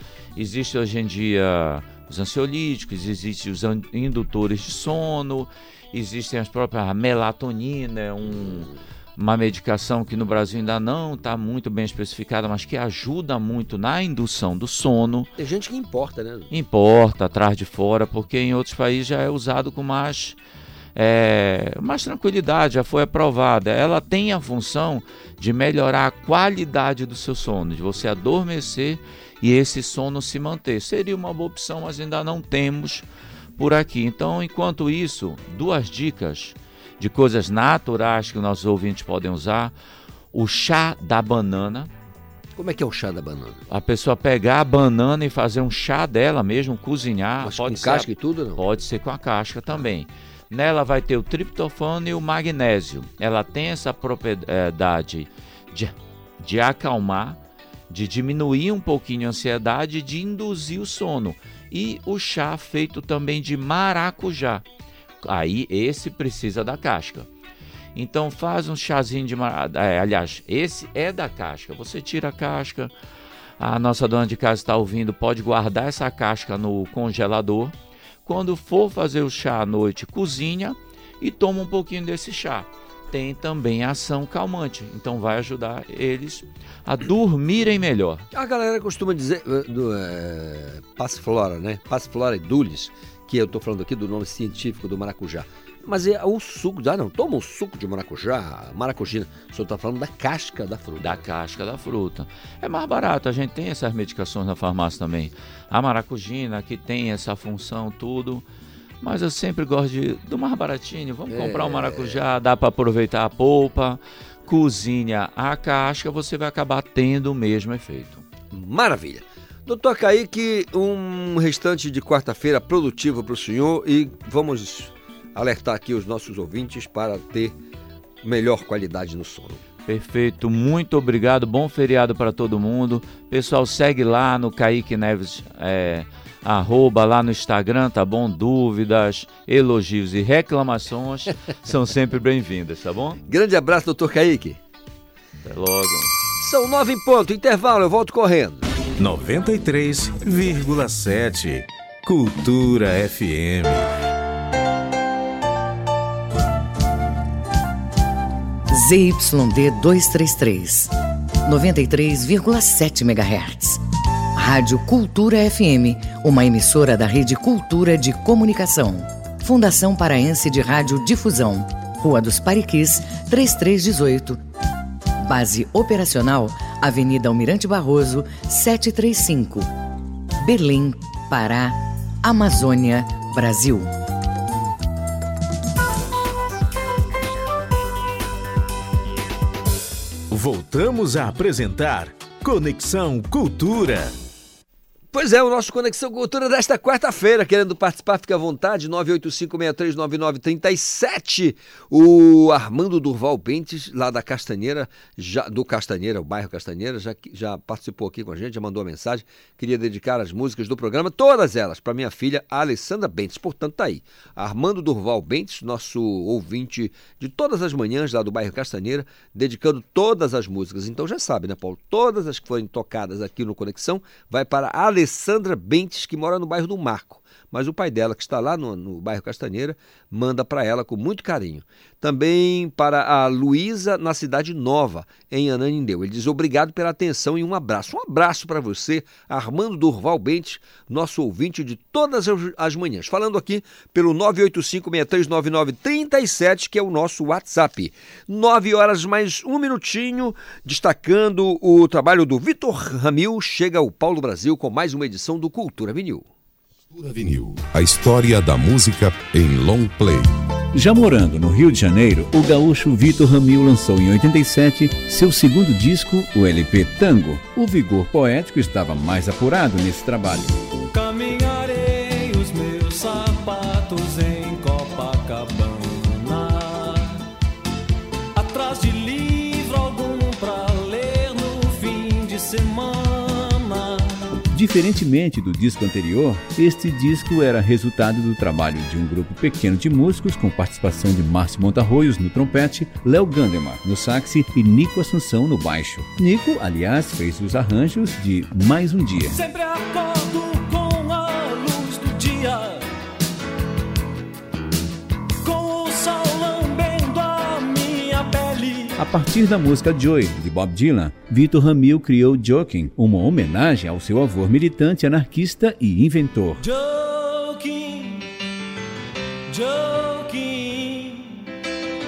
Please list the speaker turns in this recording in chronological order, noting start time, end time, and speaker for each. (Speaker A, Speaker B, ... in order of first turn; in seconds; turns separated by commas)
Speaker A: 0.3-15.3, Speaker B: 8.2-8.8, Speaker B: 15.4-16.5, Speaker A: 16.5-20.4, Speaker A: 20.9-33.0, Speaker A: 33.6-39.7, Speaker A: 40.3-41.9, Speaker B: 42.5-43.6, Speaker A: 43.7-57.4, Speaker B: 47.4-48.6, Speaker A: 57.9-64.6, Speaker A: 65.2-67.3, Speaker A: 67.9-72.9, Speaker A: 73.6-77.7, Speaker A: 78.2-88.2, Speaker B: 88.3-101.2, Speaker A: 101.0-108.4, Speaker A: 109.0-118.2, Speaker B: 111.3-112.2, Speaker B: 118.5-127.5, Speaker B: 128.2-129.6, Speaker A: 129.8-143.2, Speaker B: 143.2-144.6, Speaker A: 145.4-146.1, Speaker B: 146.4-148.7, Speaker C: 149.0-153.9, Speaker D: 158.7-160.9, Speaker D: 161.4-163.8, Speaker D: 164.3-174.4, Speaker D: 175.2-179.7, Speaker D: 180.4-183.9, Speaker C: 190.3-194.1, Speaker B: 195.1-256.2, Speaker E: 256.9-260.3, Speaker F: 260.7-270.6, Speaker G: 270.9-277.2, Speaker G: 278.3-284.2, Speaker F: 284.5-299.4, Speaker G: 299.3-302.8, Speaker G: 305.4-309.0, Speaker F: 309.0-316.6, Speaker G: 316.6-318.3, Speaker G: 319.5-321.4